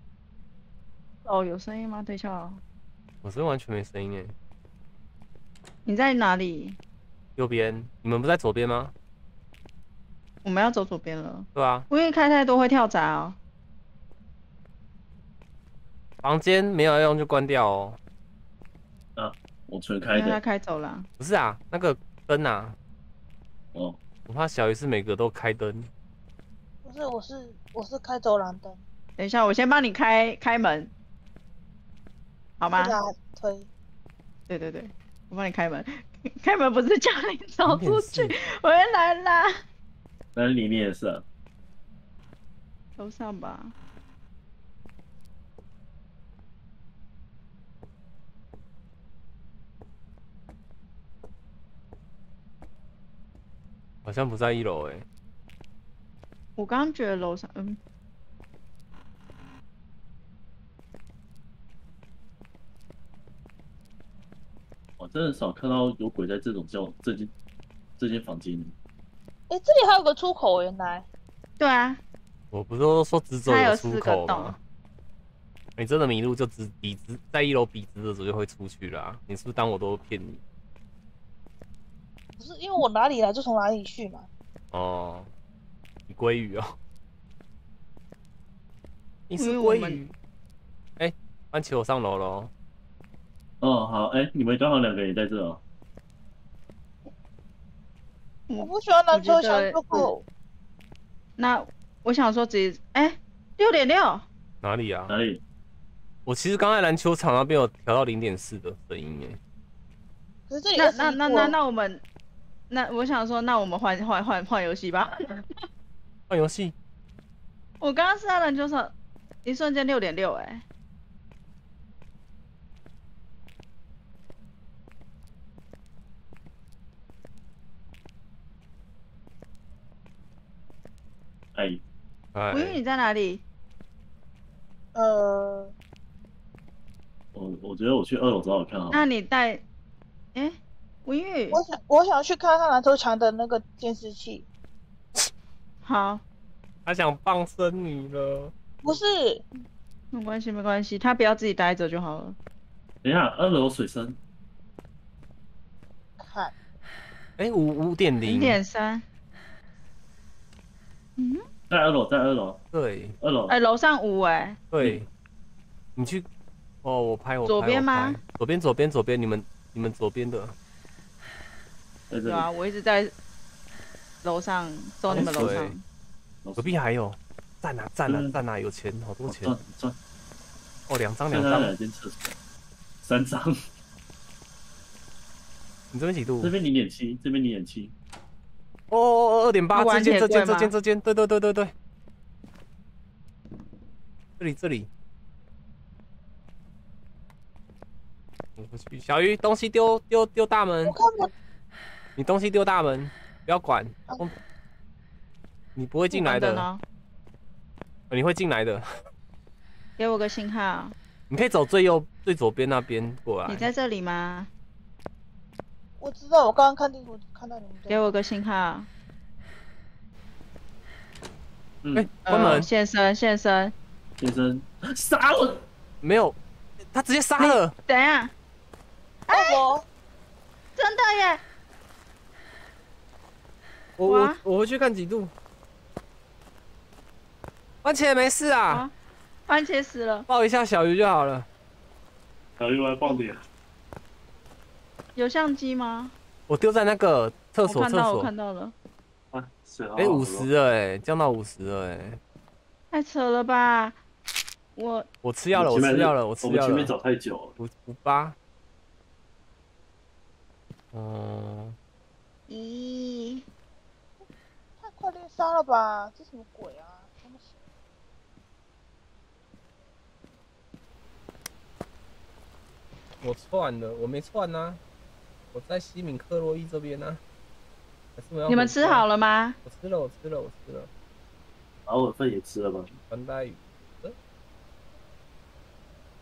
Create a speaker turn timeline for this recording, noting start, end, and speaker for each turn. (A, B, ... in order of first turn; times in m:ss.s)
0:01.2-0:02.6 A
0:03.2-0:04.4 B
0:05.9-0:06.8 A
0:07.4-0:08.9 B
0:10.4-0:13.4 A
0:11.6-0:11.9 B
0:16.2-0:18.0 B
0:19.2-0:20.4 C
0:20.1-0:21.1 A
0:21.2-0:22.8 B
0:24.3-0:25.9 B
0:26.8-0:28.8 D
0:29.2-0:30.9 A
0:32.6-0:33.0 A
0:32.7-0:33.7 D
0:34.5-0:39.6 A
0:37.6-0:38.4 B
0:40.4-0:41.2 C
0:43.0-0:43.8 A
0:54.0-0:55.0 B
0:56.6-0:57.8 A
1:05.0-1:07.3 C
1:08.0-1:08.8 C
1:09.5-1:11.0 D
1:11.6-1:12.0 A
1:12.5-1:14.6 B
1:13.5-1:14.6 A
1:15.8-1:20.4 B
1:22.4-1:24.3 D
1:24.7-1:25.3 B
1:26.1-1:26.8 B
1:29.3-1:30.1 B
1:29.4-1:30.0 A
1:31.0-1:32.5 B
1:33.6-1:35.6 C
1:38.5-1:40.2 A
1:38.6-1:40.2 D
1:41.4-1:44.3 A
1:44.6-1:45.2 B
1:45.1-1:45.4 C
1:46.3-1:49.4 B
1:50.5-1:51.6 D
1:50.8-1:52.0 A
1:52.7-1:55.6 A
1:56.3-1:56.8 B
1:57.8-2:00.6 A
2:11.6-2:11.8 C
2:12.3-2:12.8 B
2:12.5-2:13.4 A
2:15.0-2:15.7 D
2:17.3-2:19.1 C
2:18.9-2:19.6 A
2:20.3-2:21.6 A
2:21.5-2:24.5 D
2:25.8-2:26.2 A
2:26.9-2:28.5 B
2:28.8-2:29.4 D
2:30.1-2:32.4 A
2:33.0-2:34.2 C
2:36.2-2:36.5 D
2:37.4-2:38.6 B
2:38.3-2:39.0 A
2:41.2-2:41.4 A
2:41.7-2:42.6 C
2:42.7-2:43.2 B
2:43.2-2:43.6 C
2:43.5-2:44.6 A
2:44.7-2:45.1 B
2:46.0-2:46.3 B
2:46.8-2:50.6 B
2:47.5-2:48.2 A
2:52.1-2:52.5 C
2:52.3-2:53.1 A
2:54.2-2:55.8 A
2:55.1-2:55.8 B
2:55.1-2:55.6 C
2:56.4-2:56.8 C
2:56.6-2:59.6 B
2:58.1-2:58.4 C
2:59.3-3:00.0 C
3:00.9-3:01.8 B
3:01.3-3:02.4 C
3:03.0-3:03.6 C
3:05.9-3:06.6 B
3:06.4-3:07.9 C
3:08.9-3:11.7 B
3:09.7-3:10.7 A
3:14.4-3:14.9 B
3:18.6-3:21.0 B
3:20.8-3:21.3 D
3:22.2-3:24.4 B
3:25.8-3:26.7 B
3:26.1-3:26.8 A
3:28.1-3:29.0 B
3:30.0-3:31.0 A
3:31.3-3:33.7 B
3:33.5-3:34.5 A
3:36.0-3:38.1 D
3:37.9-3:38.9 A
3:41.8-3:42.6 C
3:42.0-3:42.7 B
3:42.2-3:43.7 A
3:44.2-3:45.6 C
3:46.0-3:46.4 B
3:46.9-3:47.7 B
3:47.4-3:48.3 A
3:49.3-3:49.6 A
3:49.3-3:49.8 D
3:50.8-3:51.4 A
3:54.0-3:55.3 B
3:54.1-3:54.4 A
3:57.8-3:58.8 B
3:59.5-4:00.3 A
4:00.3-4:01.5 B
4:02.6-4:03.4 C
4:05.2-4:06.2 A
4:06.5-4:08.3 B
4:07.7-4:08.8 A
4:09.3-4:10.5 C
4:10.0-4:12.2 B
4:12.9-4:14.0 A
4:14.8-4:15.1 A
4:15.2-4:17.0 B
4:15.5-4:17.6 C
4:17.6-4:18.4 B
4:20.9-4:21.8 B
4:22.5-4:23.4 A
4:24.8-4:27.5 D
4:33.2-4:34.8 B
4:35.5-4:37.2 B
4:38.2-4:39.1 B
4:38.5-4:39.6 A
4:39.6-4:40.9 B
4:41.9-4:43.0 C
4:43.1-4:44.2 B